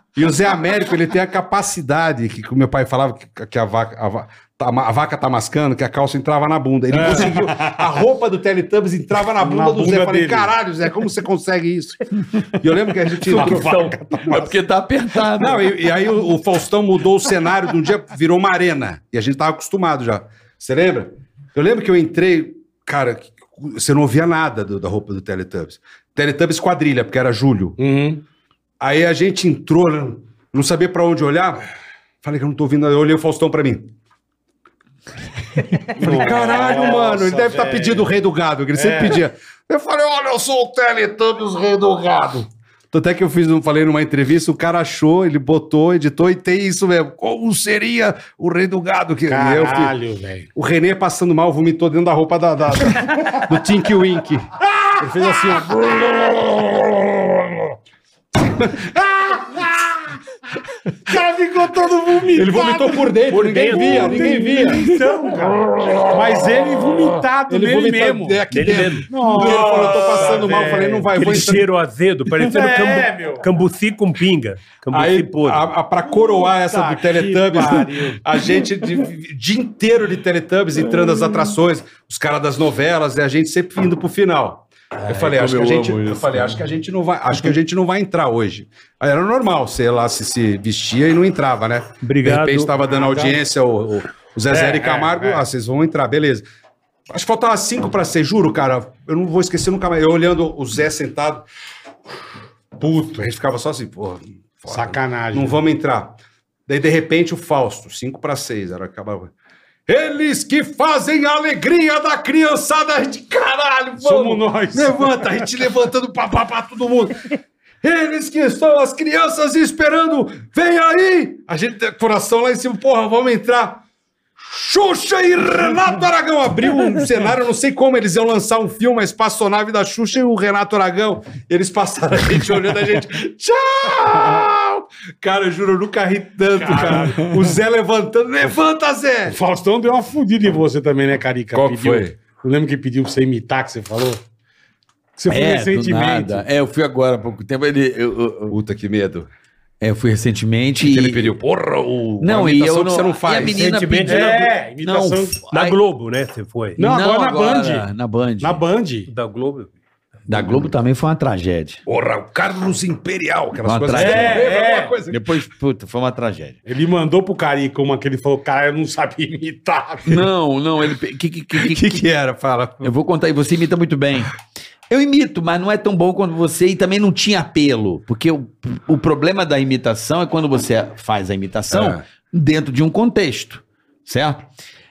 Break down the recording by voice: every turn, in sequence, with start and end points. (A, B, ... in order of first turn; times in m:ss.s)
0:00.1-0:13.8 A
0:06.9-0:07.8 B
0:09.4-0:10.5 B
0:13.2-0:14.5 B
0:13.4-0:13.9 C
0:14.2-0:15.7 D
0:15.4-0:27.8 A
0:27.8-0:28.2 B
0:28.8-0:31.6 A
0:32.2-0:33.9 A
0:35.9-0:38.1 B
0:35.9-0:49.9 A
0:38.7-0:39.2 B
0:49.3-0:50.5 B
0:50.5-0:54.5 A
0:55.0-0:55.9 B
0:55.0-0:57.7 A
0:58.6-1:00.0 A
0:58.7-0:59.7 B
1:01.1-1:03.1 B
1:02.3-1:11.7 A
1:03.3-1:04.6 C
1:03.6-1:08.4 B
1:08.5-1:09.1 C
1:09.1-1:11.4 B
1:11.1-1:15.7 C
1:12.4-1:13.4 B
1:14.9-1:36.4 A
1:16.5-1:18.2 B
1:25.0-1:26.6 D
1:32.0-1:32.7 C
1:32.8-1:33.4 B
1:34.5-1:35.4 B
1:37.1-1:41.4 A
1:42.8-1:43.3 B
1:43.1-1:49.3 A
1:44.7-1:45.6 B
1:49.9-1:57.2 A
1:54.0-1:55.4 B
1:57.8-2:03.8 A
2:04.4-2:19.4 A
2:16.6-2:17.2 B
2:19.3-2:24.2 B
2:21.5-2:22.2 A
2:25.2-2:26.4 B
2:25.3-2:28.6 D
2:28.5-2:29.3 A
2:29.8-2:31.3 D
2:30.8-2:33.6 A
2:32.2-2:35.8 D
2:33.4-2:34.4 C
2:34.0-2:35.4 B
2:35.5-2:36.8 C
2:36.8-2:37.8 B
2:36.8-2:38.6 D
2:38.4-2:39.1 B
2:39.1-2:39.7 C
2:40.3-2:41.8 D
2:41.8-2:45.3 A
2:43.6-2:44.5 D
2:43.9-2:44.9 B
2:45.1-2:46.6 D
2:46.6-2:50.2 B
2:50.0-2:52.0 D
2:51.5-2:52.9 A
2:52.8-2:54.4 D
2:54.9-3:04.5 D
3:01.7-3:02.0 A